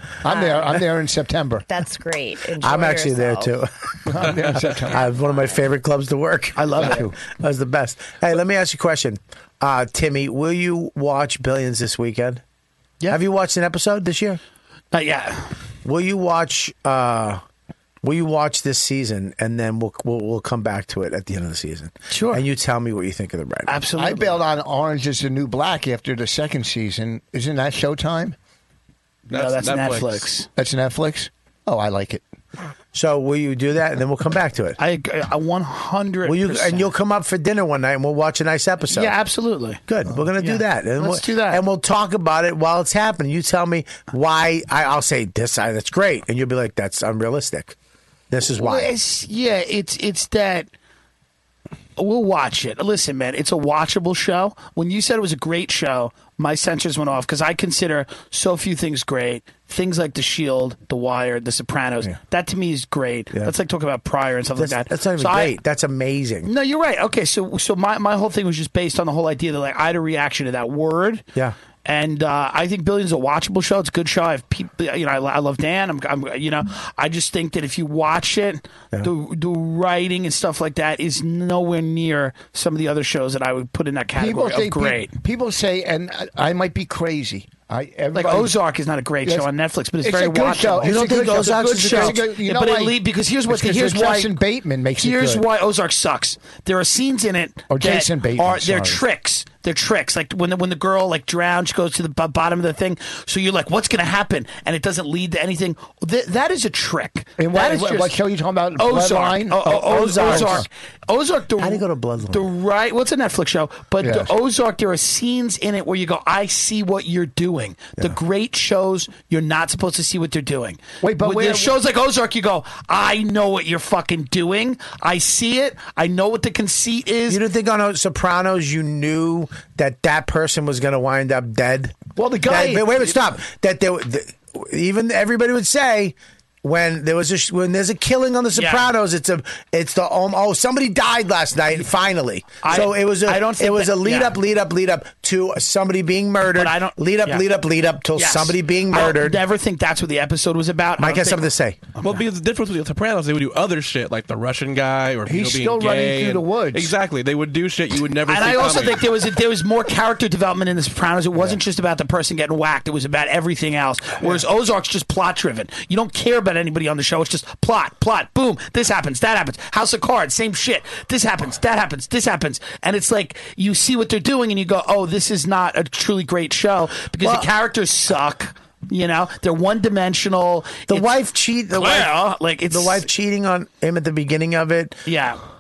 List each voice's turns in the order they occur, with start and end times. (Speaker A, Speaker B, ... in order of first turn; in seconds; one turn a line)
Speaker A: 0.2-1.6
Speaker B: 0.3-0.8
Speaker B: 1.7-3.5
Speaker C: 2.6-12.4
Speaker A: 4.1-5.0
Speaker D: 6.5-7.0
Speaker A: 6.8-7.1
Speaker C: 13.1-14.4
Speaker D: 14.9-15.5
Speaker C: 15.8-17.4
Speaker C: 18.0-23.8
Speaker D: 22.1-22.4
Speaker D: 23.7-24.4
Speaker A: 24.0-28.4
Speaker E: 29.3-30.3
Speaker D: 29.3-30.5
Speaker A: 30.6-32.2
Speaker C: 32.9-34.8
Speaker D: 34.8-36.9
Speaker C: 36.2-39.1
Speaker D: 38.9-39.8
Speaker C: 39.9-47.8
Speaker D: 40.4-41.6
Speaker C: 48.3-48.9
Speaker D: 48.5-50.7
Speaker D: 52.0-65.5
Speaker C: 64.5-66.5
Speaker D: 66.4-71.2
Speaker D: 71.8-85.1
Speaker A: 84.2-88.5
Speaker D: 88.1-94.4
Speaker A: 90.0-95.4
Speaker C: 90.8-92.2
Speaker D: 95.0-108.1
Speaker A: 97.7-99.0
Speaker A: 107.4-110.7
Speaker D: 108.8-127.4
Speaker C: 109.7-110.7
Speaker C: 111.6-112.5
Speaker A: 114.0-114.3
Speaker A: 121.0-121.8
Speaker C: 127.3-149.4
Speaker A: 132.2-132.9
Speaker D: 138.6-138.9
Speaker D: 142.6-144.4
Speaker D: 146.5-147.4
Speaker D: 148.2-151.5
Speaker C: 151.0-151.8
Speaker E: 152.0-159.1
Speaker A: 155.3-156.9
Speaker D: 158.3-181.1
Speaker C: 177.2-177.5
Speaker C: 180.9-182.1
Speaker D: 181.7-183.1
Speaker C: 182.7-185.1
Speaker D: 185.1-185.4